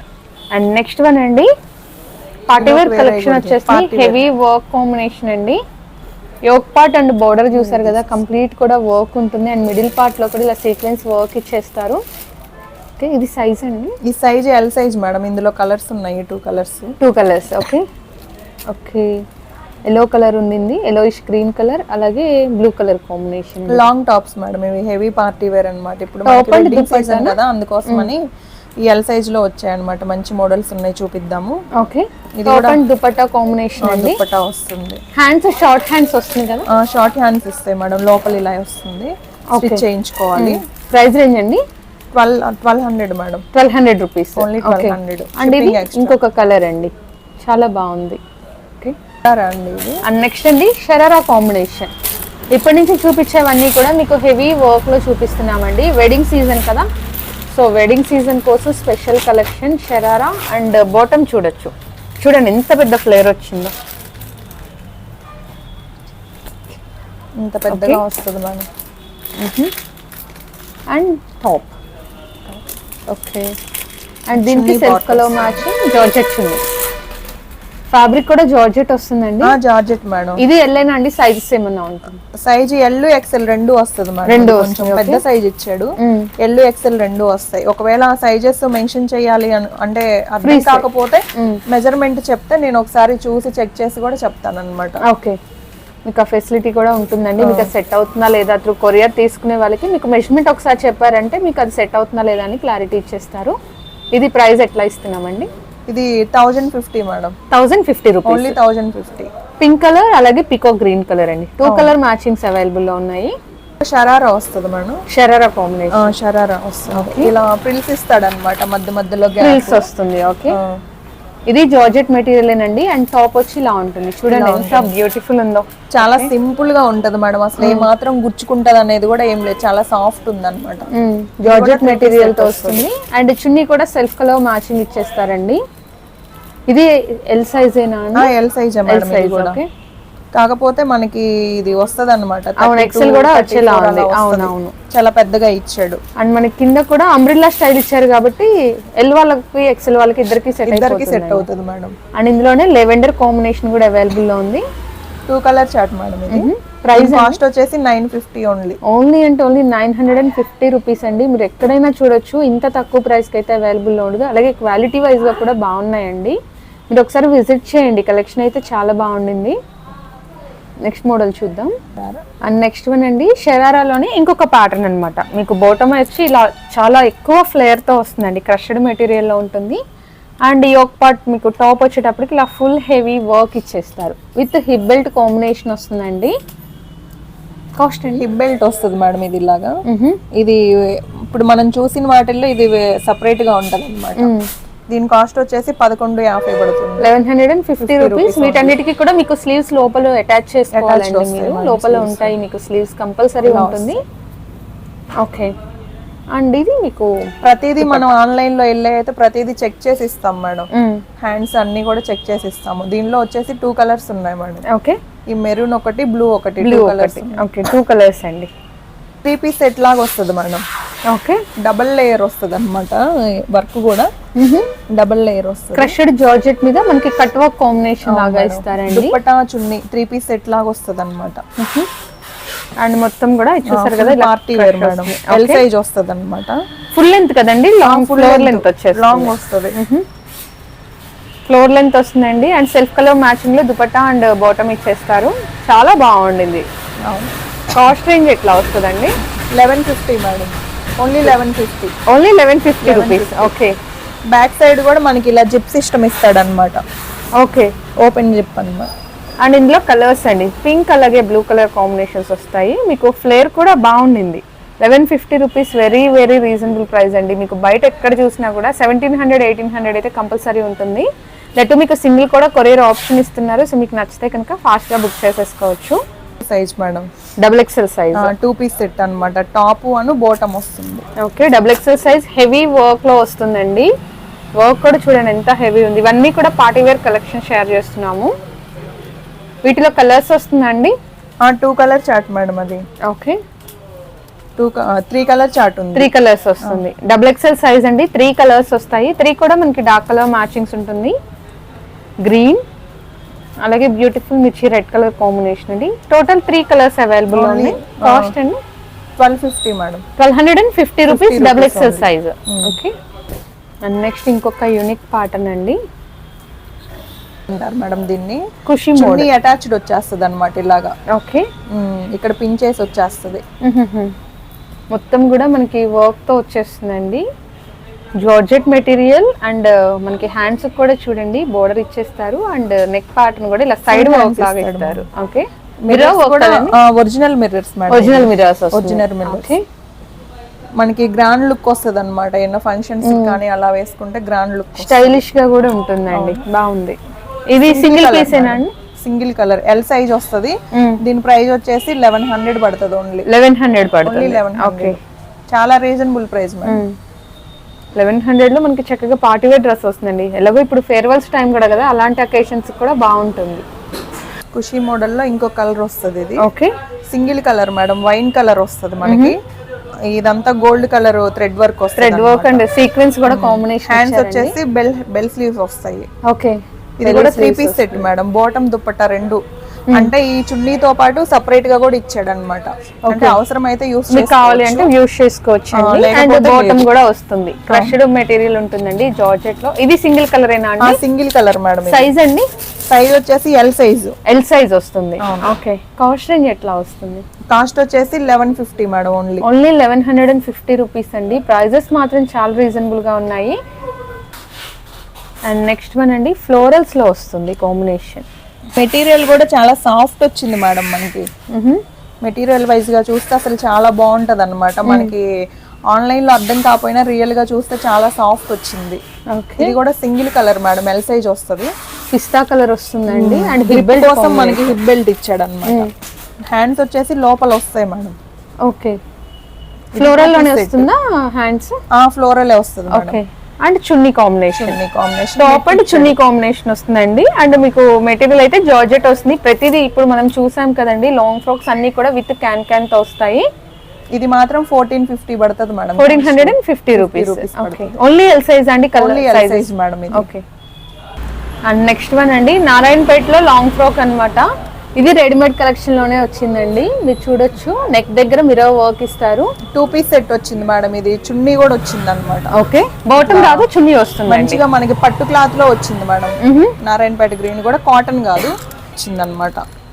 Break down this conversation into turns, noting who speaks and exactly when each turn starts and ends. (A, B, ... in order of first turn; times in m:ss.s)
0:00.5-0:01.5 A
0:02.5-0:05.6 A
0:02.6-0:04.2 B
0:06.5-0:12.0 A
0:07.5-0:08.0 B
0:13.0-0:13.9 A
0:14.1-0:16.9 B
0:17.0-0:17.8 A
0:18.7-0:19.1 A
0:19.9-0:23.9 A
0:23.7-0:28.2 B
0:26.2-0:27.4 A
0:28.8-0:31.6 B
0:31.8-0:34.2 A
0:32.4-0:32.8 B
0:33.8-0:35.0 B
0:35.2-0:36.7 A
0:36.7-0:40.6 B
0:39.6-0:39.8 A
0:40.4-0:41.6 A
0:42.1-0:43.5 B
0:43.5-0:48.2 A
0:44.4-0:46.2 B
0:49.2-0:50.0 B
0:50.1-0:51.9 A
0:52.5-0:56.9 A
0:57.5-1:03.7 A
1:07.4-1:08.7 B
1:07.7-1:08.0 A
1:09.4-1:09.7 A
1:10.9-1:11.7 A
1:13.1-1:13.5 A
1:14.3-1:16.6 A
1:14.3-1:15.7 B
1:17.9-1:19.5 A
1:19.4-1:20.4 B
1:20.4-1:22.2 A
1:22.3-1:35.0 B
1:24.3-1:25.2 A
1:26.0-1:26.3 A
1:30.4-1:30.9 A
1:35.1-1:35.4 A
1:36.1-1:43.6 A
1:37.4-1:37.7 B
1:44.1-1:45.5 A
1:45.9-1:47.4 B
1:47.5-1:48.6 A
1:48.2-1:49.3 B
1:49.6-1:53.3 A
1:51.6-1:51.9 B
1:53.8-1:55.0 B
1:55.1-1:56.1 A
1:55.9-1:59.9 B
1:56.9-1:57.3 A
1:59.4-2:00.6 A
2:00.5-2:00.8 B
2:01.5-2:06.3 A
2:04.3-2:04.9 B
2:06.0-2:10.9 B
2:07.6-2:07.9 A
2:11.0-2:15.6 A
2:11.4-2:12.9 B
2:16.7-2:18.3 A
2:18.2-2:19.6 B
2:18.9-2:19.6 A
2:20.4-2:26.0 B
2:22.6-2:24.7 A
2:26.2-2:31.5 A
2:30.7-2:32.0 B
2:32.2-2:34.6 A
2:35.3-2:38.8 B
2:36.3-2:37.4 A
2:38.9-2:46.4 A
2:46.9-2:49.6 A
2:50.9-2:51.7 A
2:52.0-2:52.2 B
2:52.5-2:59.8 A
3:00.5-3:06.3 A
3:07.8-3:08.2 A
3:08.2-3:09.8 B
3:09.9-3:10.2 A
3:10.4-3:14.3 B
3:14.2-3:14.4 A
3:14.9-3:17.1 B
3:17.0-3:24.0 A
3:17.8-3:18.8 B
3:20.7-3:22.3 B
3:23.4-3:24.0 B
3:25.2-3:25.5 A
3:26.4-3:27.3 A
3:27.4-3:30.7 B
3:27.8-3:28.1 A
3:30.8-3:31.0 A
3:31.2-3:34.6 B
3:35.3-3:37.5 B
3:36.6-3:38.5 A
3:39.2-3:40.6 B
3:41.1-3:41.4 A
3:41.6-3:44.1 B
3:44.4-3:44.7 A
3:44.9-3:46.0 B
3:45.8-3:49.2 A
3:48.0-3:51.4 B
3:51.6-3:51.9 A
3:52.8-3:55.6 A
3:53.7-3:56.6 B
3:57.0-4:00.0 A
3:57.8-3:59.8 B
4:01.5-4:06.6 A
4:07.1-4:07.3 B
4:07.8-4:09.1 A
4:09.5-4:12.0 B
4:12.1-4:13.7 A
4:12.8-4:13.6 B
4:14.3-4:16.8 B
4:17.4-4:17.7 A
4:18.0-4:18.9 B
4:19.4-4:31.1 A
4:31.6-4:36.0 A
4:36.4-4:37.1 B
4:37.4-4:38.3 A
4:38.2-4:41.1 B
4:41.2-4:43.9 A
4:44.6-4:48.3 A
4:49.6-4:50.9 A
4:51.4-4:52.8 B
4:53.1-4:53.4 A
4:54.6-4:56.1 B
4:56.0-5:01.2 A
5:02.2-5:02.6 A
5:03.6-5:08.6 A
5:07.3-5:08.3 B
5:09.2-5:10.0 B
5:10.2-5:12.9 A
5:11.1-5:12.8 B
5:13.8-5:15.8 A
5:17.5-5:21.0 B
5:18.7-5:19.3 A
5:21.2-5:21.5 A
5:21.7-5:23.4 B
5:23.6-5:24.1 A
5:24.9-5:27.2 A
5:28.2-5:36.7 A
5:33.9-5:35.1 B
5:35.8-5:39.5 B
5:37.9-5:39.6 A
5:40.8-5:45.2 B
5:43.0-5:43.4 A
5:44.8-5:47.0 A
5:46.1-5:46.4 B
5:47.5-5:48.7 A
5:47.7-5:53.3 B
5:53.3-5:55.0 A
5:54.0-5:55.0 B
5:55.5-5:56.8 B
5:58.0-6:03.6 A
6:04.5-6:06.4 B
6:06.4-6:06.7 A
6:07.1-6:09.4 B
6:09.0-6:09.4 A
6:10.1-6:12.7 B
6:12.0-6:14.6 A
6:13.3-6:16.1 B
6:16.3-6:18.1 A
6:17.0-6:24.9 B
6:23.1-6:23.4 A
6:24.1-6:31.0 A
6:25.7-6:26.9 B
6:27.7-6:28.0 B
6:30.8-6:32.1 B
6:31.9-6:32.4 A
6:32.9-6:34.2 B
6:34.3-6:37.2 A
6:35.2-6:35.5 B
6:37.5-6:39.5 B
6:39.4-6:43.6 A
6:45.5-6:48.2 A
6:48.8-6:51.3 B
6:51.5-6:51.8 A
6:52.2-6:55.3 B
6:54.9-6:55.1 A
6:55.9-6:59.0 B
6:59.4-6:59.7 A
6:59.6-7:01.7 B
7:02.1-7:04.8 A
7:03.1-7:05.9 B
7:06.5-7:08.2 B
7:08.7-7:09.0 A
7:10.0-7:10.9 B
7:10.0-7:11.8 A
7:11.9-7:13.2 B
7:12.9-7:14.8 A
7:14.6-7:16.2 B
7:15.4-7:23.5 A
7:24.1-7:27.9 B
7:26.0-7:30.4 A
7:29.0-7:30.3 B
7:31.7-7:34.4 A
7:35.0-7:39.5 A
7:39.7-7:42.5 B
7:42.5-7:44.6 A
7:43.2-7:43.7 B
7:44.3-7:49.6 B
7:46.4-7:46.7 A